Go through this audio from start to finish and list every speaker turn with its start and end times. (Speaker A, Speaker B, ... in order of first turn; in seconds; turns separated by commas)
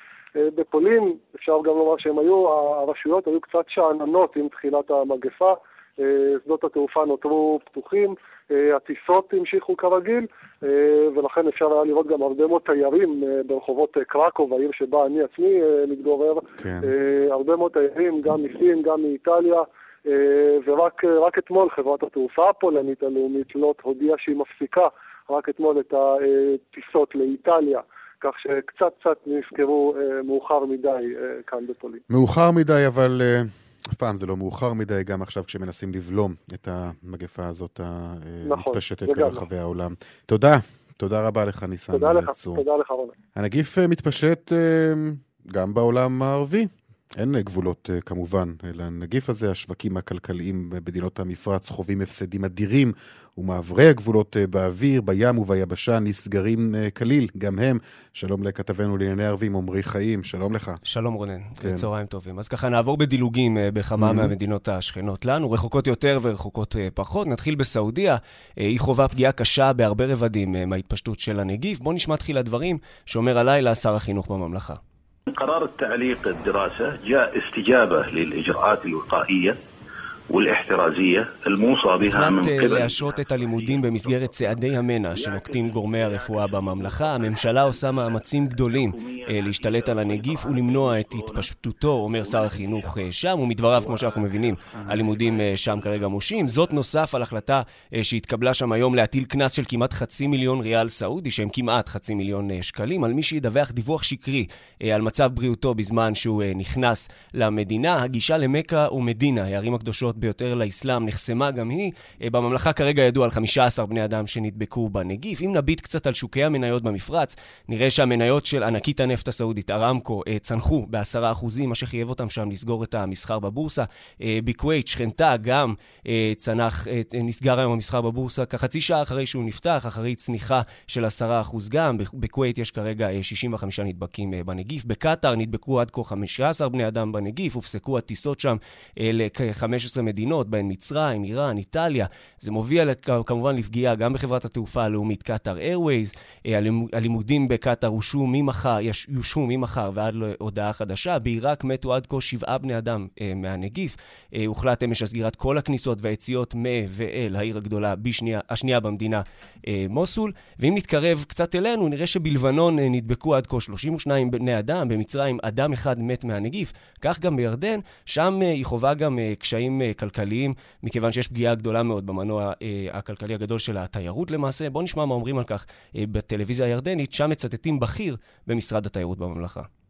Speaker A: 0.4-32.0, Speaker B: 16.6-16.9, Speaker B: 32.1-42.6, Speaker A: 38.5-39.4, Speaker A: 41.9-43.1, Speaker B: 43.4-60.8, Speaker C: 60.9-74.8, Speaker B: 64.0-64.3, Speaker D: 75.3-79.6, Speaker D: 80.3-84.5, Speaker C: 82.0-179.7, Speaker D: 85.1-91.5, Speaker D: 92.2-93.1, Speaker D: 93.8-95.7